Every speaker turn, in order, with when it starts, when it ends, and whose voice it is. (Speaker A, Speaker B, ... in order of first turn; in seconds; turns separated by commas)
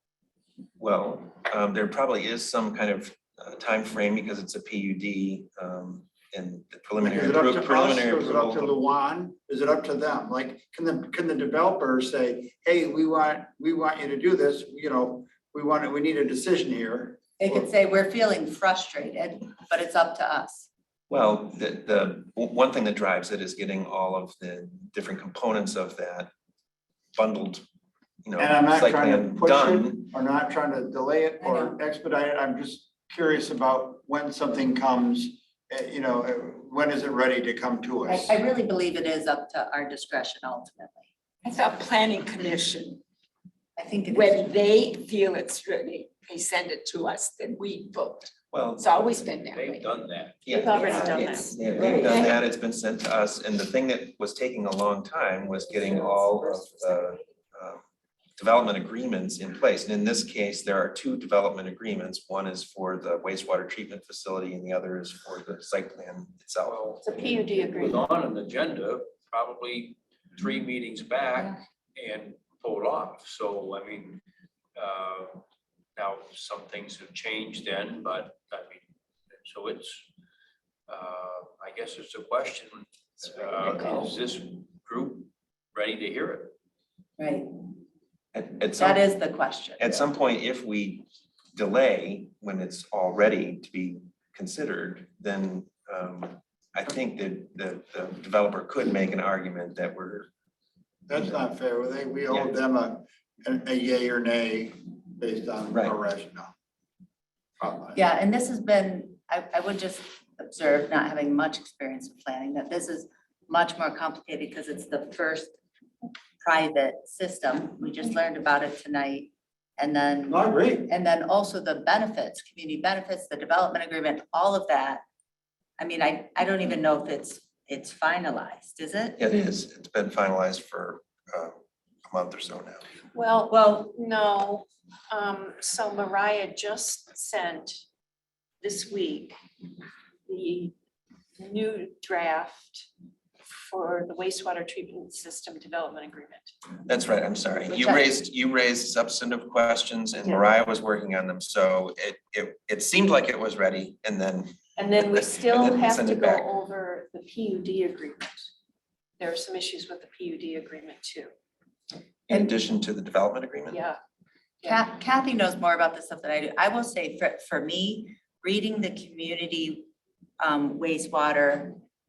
Speaker A: 0.8-8.7, Speaker B: 7.0-17.7, Speaker C: 17.4-20.7, Speaker A: 21.1-26.3, Speaker A: 27.1-27.6, Speaker A: 28.2-30.1, Speaker B: 28.4-38.4, Speaker C: 31.4-31.7, Speaker C: 38.1-41.1, Speaker D: 41.6-42.8, Speaker C: 43.8-44.6, Speaker D: 44.1-48.0, Speaker A: 48.5-49.0, Speaker D: 48.8-49.7, Speaker E: 49.5-51.0, Speaker A: 50.5-57.8, Speaker F: 50.5-51.7, Speaker D: 50.8-51.1, Speaker D: 51.8-52.3, Speaker A: 58.4-66.8, Speaker E: 66.6-74.2, Speaker F: 67.0-68.0, Speaker E: 74.8-75.4, Speaker E: 76.0-78.8, Speaker E: 79.4-80.0, Speaker E: 80.9-86.5, Speaker C: 87.2-87.5, Speaker A: 88.3-89.0, Speaker C: 88.8-90.0, Speaker A: 89.8-100.3, Speaker B: 101.1-106.5, Speaker B: 107.6-108.0, Speaker C: 107.9-115.5, Speaker C: 116.4-125.0, Speaker B: 120.3-120.9, Speaker C: 125.8-129.2, Speaker A: 129.2-131.6, Speaker A: 132.1-132.8, Speaker F: 133.1-137.8, Speaker F: 138.6-139.3, Speaker F: 140.3-140.7, Speaker F: 141.4-142.9, Speaker F: 143.5-146.5, Speaker A: 146.8-156.4, Speaker C: 147.7-148.1, Speaker F: 154.8-158.5, Speaker F: 159.2-161.3, Speaker A: 162.3-163.8, Speaker F: 163.7-164.0, Speaker C: 164.6-169.9, Speaker C: 170.4-171.8